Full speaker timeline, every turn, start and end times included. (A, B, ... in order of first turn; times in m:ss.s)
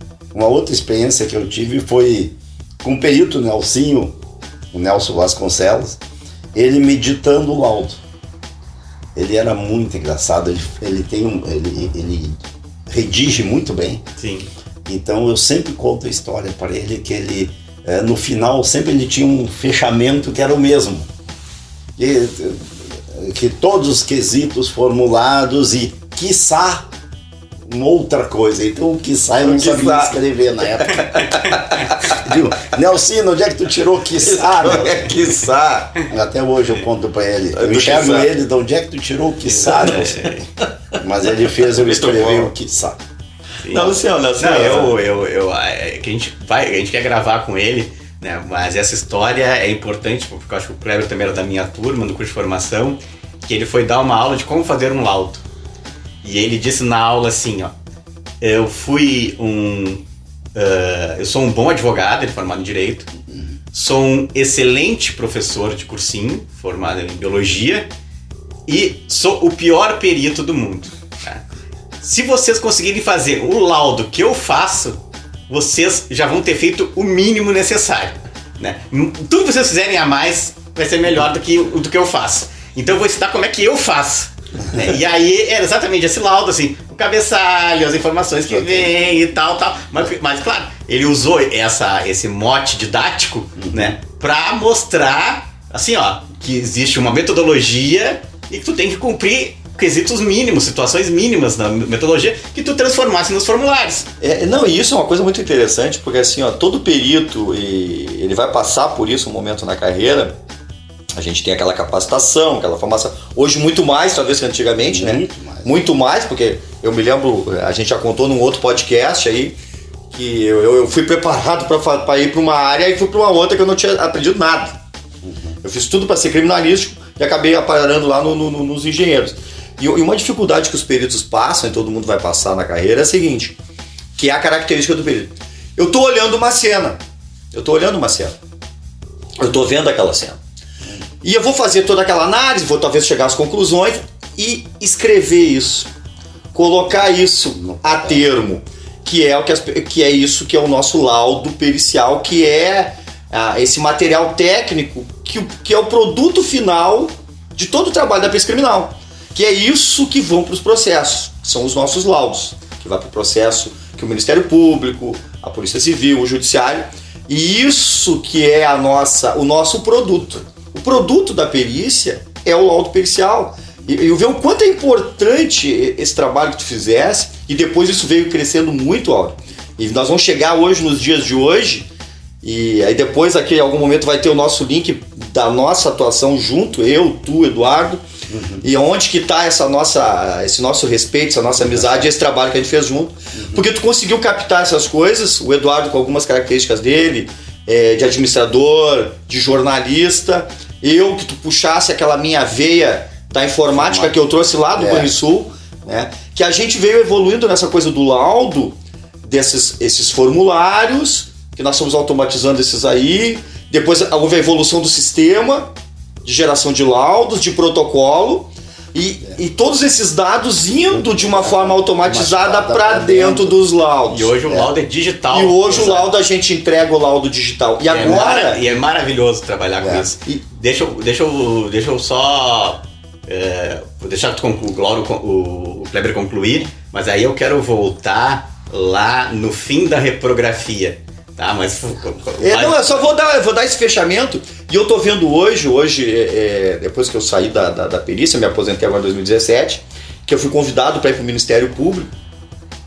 0:00.3-0:04.1 A
0:04.7-0:06.0 A
0:06.5-0:08.0 A
0:09.1-0:14.0 A
0:14.2-0:14.5 B
0:14.8-0:21.1 A
0:22.0-0:26.9 A
0:27.6-0:31.2 A
0:29.4-0:30.2 C
0:30.8-0:32.0 C
0:31.2-0:31.6 B
0:32.0-0:35.3 A
0:34.2-0:35.9 C
0:36.1-0:40.3 A
0:37.5-0:38.3 C
0:39.5-0:40.4 B
0:39.8-0:40.1 C
0:41.0-0:43.0 A
0:41.6-0:42.5 C
0:43.6-0:55.4 B
0:43.7-0:45.0 C
0:56.2-0:57.7 B
0:58.4-1:00.0 B
1:00.5-1:03.1 B
1:03.7-1:07.9 B
1:08.7-1:11.4 B
1:12.0-1:15.0 B
1:15.5-1:44.1 B
1:28.5-1:28.9 A
1:33.6-1:34.0 A
1:44.2-1:50.4 C
1:51.1-1:59.6 C
1:54.9-1:55.7 A
2:00.1-2:04.8 C
2:05.2-2:05.6 A
2:05.6-2:13.5 C
2:14.2-2:17.0 C
2:17.5-2:18.4 C
2:19.4-2:20.4 C
2:21.2-2:25.9 C
2:26.5-3:01.9 C
2:27.6-2:28.2 A
3:02.4-3:08.0 C
3:08.3-3:08.6 A
3:08.6-3:35.7 C
3:11.6-3:12.1 A
3:13.3-3:13.6 A
3:23.7-3:24.1 A
3:24.7-3:25.1 A
3:36.2-3:44.3 C
3:40.9-3:43.6 A
3:44.1-3:46.1 B
3:44.4-3:44.7 A
3:45.3-3:48.6 C
3:47.9-4:03.1 B
3:49.8-3:50.1 A
4:02.4-4:12.1 C